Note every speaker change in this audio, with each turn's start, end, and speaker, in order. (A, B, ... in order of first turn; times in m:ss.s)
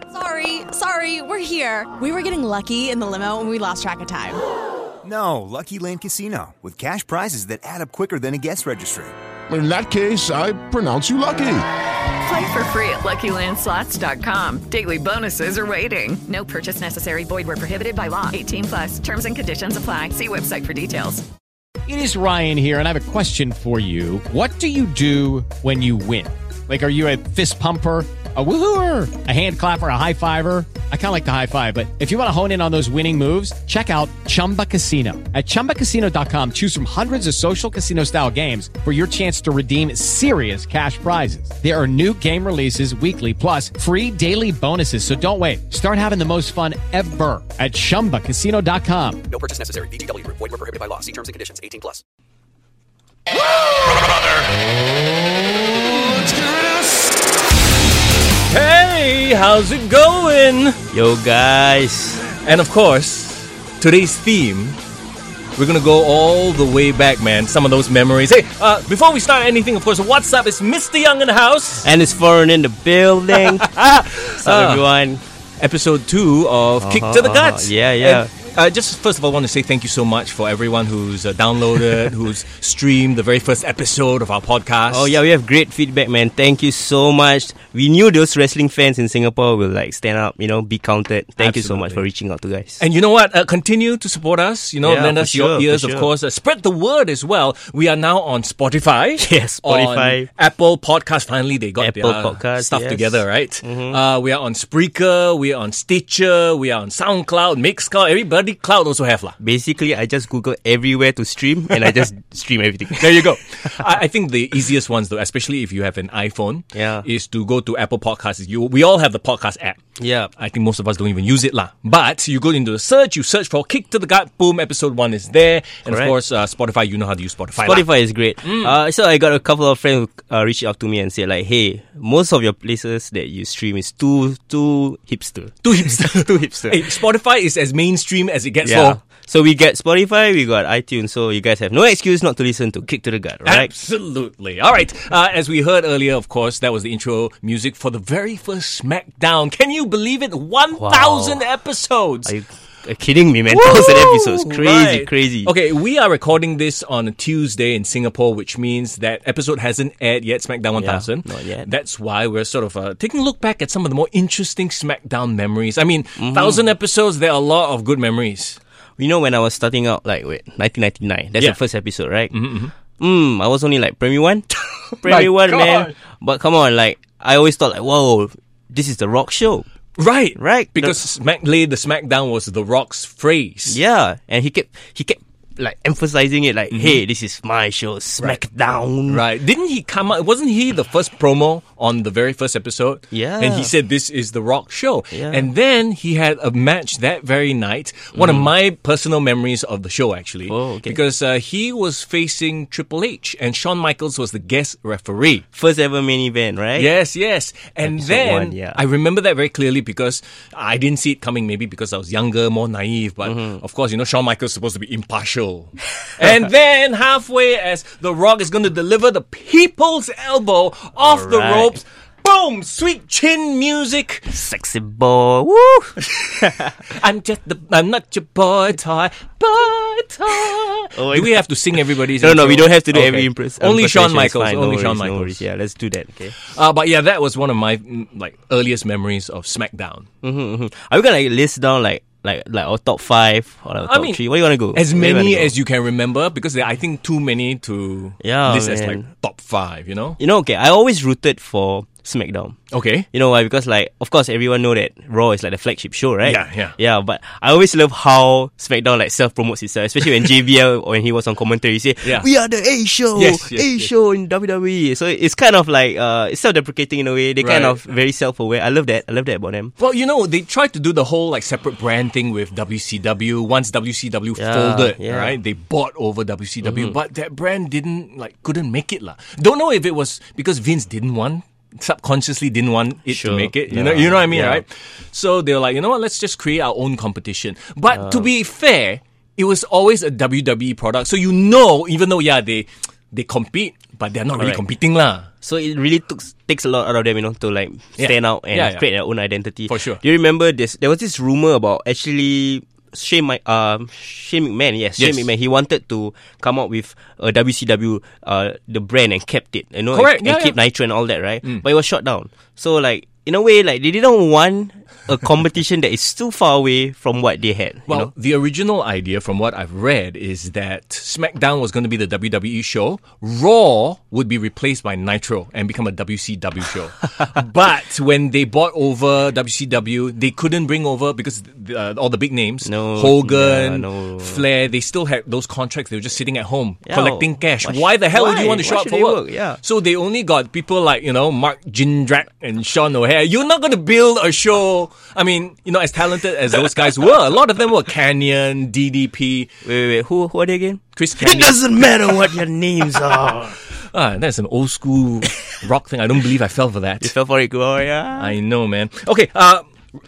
0:00.1-0:04.4 A
0:05.0-0:09.1 B
0:09.5-0:11.6 C
0:12.2-0:21.2 D
0:21.9-0:49.2 E
0:49.3-0:52.0 F
0:53.3-0:54.5 C
0:55.6-0:57.2 C
0:58.5-1:00.8 G
1:00.9-1:02.2 H
1:02.2-1:04.8 G
1:05.6-1:11.9 G
1:11.8-1:13.7 H
1:13.3-1:14.8 G
1:14.4-1:15.2 H
1:15.6-1:25.2 G
1:16.8-1:18.3 H
1:24.9-1:32.8 H
1:31.4-1:32.0 G
1:32.8-1:49.4 G
1:34.8-1:36.1 H
1:39.2-1:40.3 H
1:41.8-1:44.0 H
1:49.4-1:53.9 H
1:53.0-1:59.8 G
1:56.7-1:57.1 H
2:00.0-2:00.3 H
2:00.4-2:07.9 G
2:05.9-2:06.1 H
2:07.6-2:17.0 H
2:08.4-2:08.7 G
2:15.6-2:19.0 G
2:18.6-2:23.7 H
2:23.4-2:32.3 G
2:30.7-2:31.4 H
2:32.3-2:35.5 H
2:33.5-2:48.6 G
2:40.8-2:41.7 H
2:46.2-2:46.6 H
2:49.0-2:52.3 H
2:52.3-2:52.7 G
2:53.0-2:54.5 H
2:54.5-2:56.0 G
2:55.0-2:59.7 H
3:00.0-3:03.8 G
3:00.4-3:01.0 H
3:03.7-3:09.2 H
3:06.7-3:07.0 G
3:09.1-3:25.4 G
3:13.1-3:13.7 H
3:15.1-3:15.5 H
3:18.1-3:18.5 H
3:20.5-3:21.0 H
3:25.5-3:26.9 H
3:26.8-3:44.3 G
3:27.8-3:28.8 H
3:33.2-3:33.6 H
3:41.0-3:41.8 H
3:44.3-3:46.7 H
3:46.0-3:55.4 G
3:50.9-3:51.5 H
3:52.2-3:56.4 H
3:56.4-4:00.1 G
4:00.2-4:05.5 H
4:03.8-4:10.2 G
4:08.2-4:09.1 H
4:10.2-4:12.6 H
4:12.7-4:13.1 G
4:13.1-4:29.7 H
4:16.2-4:16.8 G
4:22.0-4:22.3 G
4:23.2-4:23.9 G
4:27.4-4:27.8 G
4:29.8-4:55.3 G
4:34.4-4:35.4 H
4:36.6-4:37.0 H
4:43.1-4:44.6 H
4:47.9-4:48.3 H
4:55.4-5:18.1 H
4:58.0-4:58.9 G
4:59.7-5:00.0 G
5:05.0-5:05.3 G
5:09.9-5:10.6 G
5:17.9-5:49.6 G
5:32.6-5:34.4 H
5:36.8-5:39.6 H
5:49.6-5:53.6 H
5:51.0-5:53.2 G
5:53.7-5:57.1 G
5:57.0-5:58.4 H
5:58.2-5:59.7 G